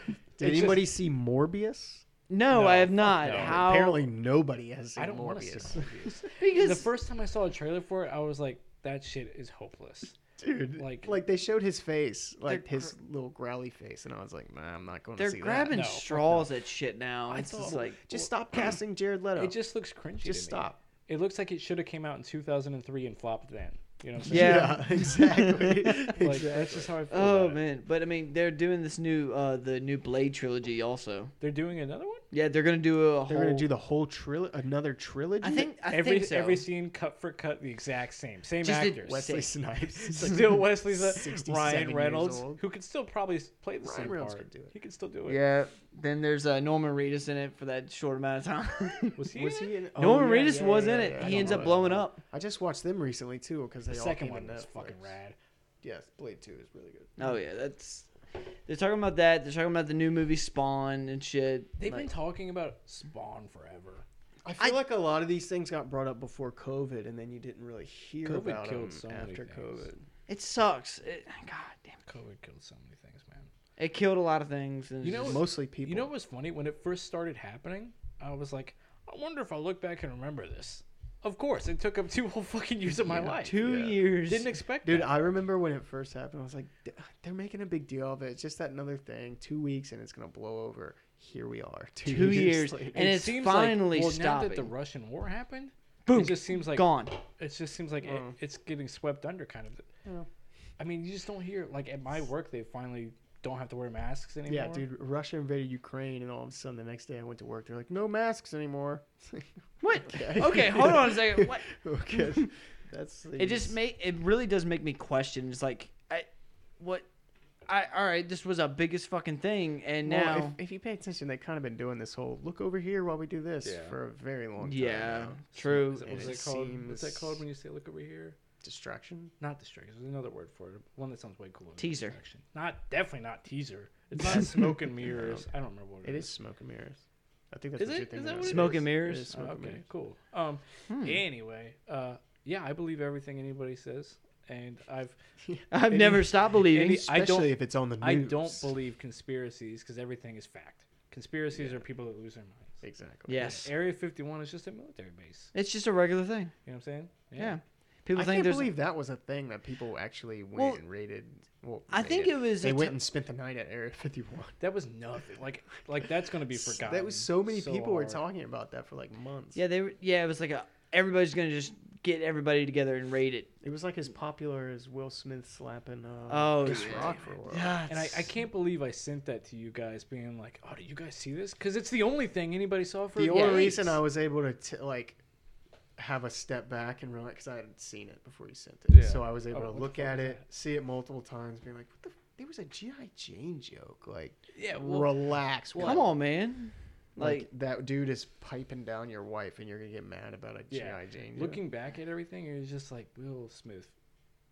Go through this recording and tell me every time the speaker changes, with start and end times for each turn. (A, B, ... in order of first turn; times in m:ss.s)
0:00.4-0:02.0 A
0:00.4-0:00.9 B
0:02.3-0:04.0 C
0:02.5-0:03.6 B
0:03.0-0:06.1 A
0:05.0-0:10.2 B
0:06.4-0:06.9 C
0:10.4-0:15.8 A
0:10.8-0:11.2 B
0:12.4-0:12.9 C
0:15.2-0:18.0 C
0:15.7-0:16.5 B
0:17.3-0:18.7 B
0:17.7-0:19.6 A
0:19.4-0:24.8 B
0:20.2-0:20.8 A
0:24.2-0:26.1 C
0:24.2-0:27.0 A
0:26.2-0:27.6 B
0:27.1-0:31.3 C
0:31.4-0:32.2 B
0:32.3-0:33.7 C
0:33.3-0:35.7 A
0:35.4-0:36.7 C
0:35.9-0:39.3 B
0:38.6-0:39.5 C
0:39.1-0:42.6 A
0:40.0-0:45.4 B
0:43.8-0:44.7 A
0:45.3-0:49.2 C
0:49.2-0:49.7 B
0:49.3-0:55.1 A
0:50.0-0:52.2 C
0:50.6-0:51.9 B
0:53.9-0:55.4 B
0:55.8-0:57.4 A
0:57.2-0:58.1 C
0:58.7-1:02.1 C
1:01.8-1:04.0 B
1:04.4-1:10.0 A
1:08.2-1:09.9 B
1:10.3-1:12.0 C
1:12.1-1:13.5 B
1:13.8-1:15.4 C
1:15.0-1:23.6 B
1:15.2-1:16.1 A
1:23.0-1:24.0 A
1:23.4-1:24.5 C
1:24.3-1:25.2 B
1:24.8-1:33.1 A
1:32.0-1:34.7 C
1:32.4-1:39.8 B
1:36.1-1:37.2 C
1:38.0-1:38.3 A
1:40.8-1:44.8 B
1:44.5-1:53.8 A
1:49.8-1:51.7 C
1:53.4-1:56.3 C
1:56.8-1:57.1 C
1:57.7-2:00.6 C
2:00.0-2:07.4 A
2:03.6-2:04.0 B
2:04.6-2:06.4 C
2:05.6-2:08.4 B
2:08.6-2:09.3 A
2:09.4-2:16.3 B
2:11.8-2:12.1 C
2:14.2-2:15.4 A
2:16.0-2:19.8 A
2:17.8-2:25.2 B
2:18.4-2:19.3 C
2:20.9-2:21.2 C
2:25.4-2:26.2 A
2:25.7-2:27.1 C
2:25.9-2:35.5 B
2:26.9-2:28.7 A
2:31.5-2:31.8 A
2:32.8-2:33.5 A
2:33.3-2:33.7 C
2:35.5-2:36.5 C
2:36.7-2:37.6 B
2:37.4-2:38.7 C
2:38.1-2:44.6 A
2:40.6-2:40.8 C
2:41.9-2:43.0 C
2:44.6-2:48.2 B
2:46.5-2:49.6 A
2:49.6-2:53.5 C
2:53.6-2:57.8 A
2:56.3-2:58.3 C
2:56.6-2:57.3 B
2:57.9-3:03.9 B
3:03.2-3:05.2 A
3:03.3-3:03.9 C
3:06.0-3:16.2 A
3:08.9-3:10.4 B
3:14.6-3:16.1 B
3:15.8-3:17.5 C
3:17.2-3:21.6 A
3:20.7-3:23.9 B